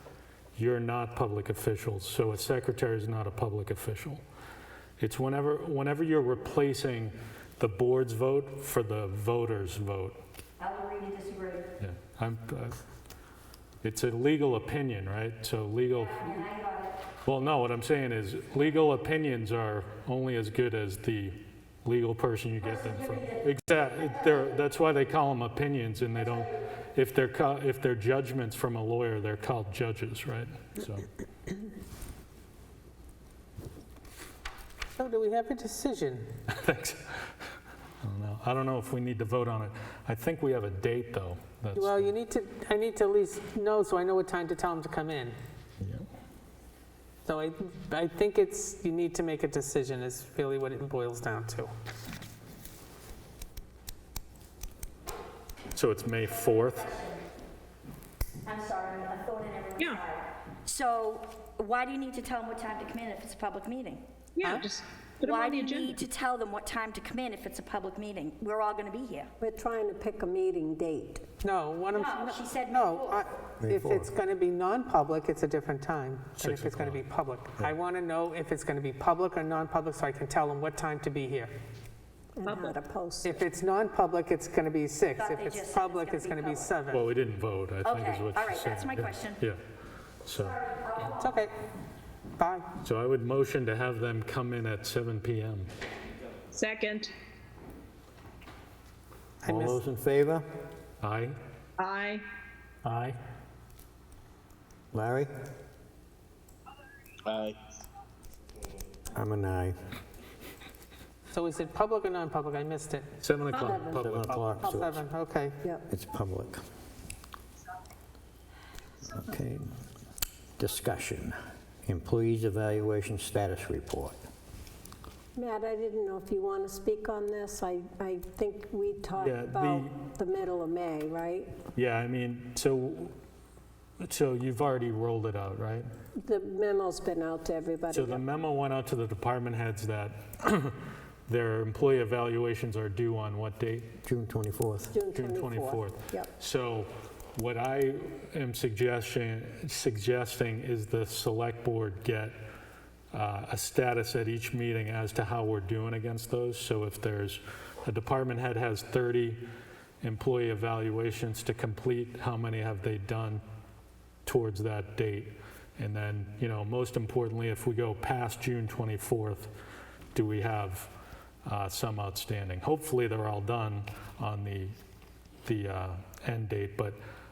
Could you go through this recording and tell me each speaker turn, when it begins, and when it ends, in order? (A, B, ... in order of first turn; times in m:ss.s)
0:00.6-0:04.2 A
0:05.0-0:10.2 A
0:10.6-0:11.7 B
0:11.8-0:12.8 A
0:13.8-0:16.5 A
0:16.1-0:17.0 B
0:17.2-0:31.1 A
0:35.0-0:36.3 C
0:36.5-0:37.3 A
0:38.0-0:42.1 A
0:41.7-0:45.4 C
0:45.8-0:46.0 A
0:47.2-0:51.7 C
0:55.7-0:56.9 A
0:56.4-0:57.2 B
0:58.4-1:04.0 B
1:04.3-1:06.0 D
1:04.4-1:04.7 C
1:05.2-1:09.3 B
1:09.4-1:11.2 E
1:11.4-1:21.5 C
1:11.9-1:13.2 B
1:13.6-1:14.1 F
1:16.4-1:17.0 A
1:22.4-1:23.4 E
1:22.4-1:22.8 D
1:23.2-1:27.0 C
1:25.2-1:26.7 B
1:26.9-1:29.6 A
1:27.8-1:29.4 B
1:30.2-1:30.6 A
1:30.7-1:31.1 B
1:31.0-1:31.5 C
1:32.4-1:32.7 C
1:32.8-1:35.7 A
1:36.5-1:37.1 D
1:39.4-1:40.4 F
1:39.4-1:39.8 C
1:41.0-1:41.4 A
1:41.8-1:42.2 D
1:42.8-1:43.2 A
1:44.9-1:45.3 F
1:49.1-1:49.8 F
1:51.3-1:55.6 C
1:53.2-1:54.4 A
1:53.9-1:55.0 F
1:55.9-1:56.6 F
1:59.1-1:59.7 F
2:00.6-2:04.2 F
2:05.3-2:11.5 E
2:09.2-2:09.9 A
2:11.7-2:13.1 A
2:14.0-2:15.9 A
2:16.2-2:18.2 E
2:17.9-2:23.9 A
2:24.0-2:24.9 F
2:24.9-2:26.3 E
2:25.1-2:32.4 A
2:33.1-2:39.4 A
2:40.0-2:43.4 A
2:44.2-2:49.5 A
2:50.1-2:50.9 A
2:51.4-2:54.7 A
2:55.4-2:57.0 A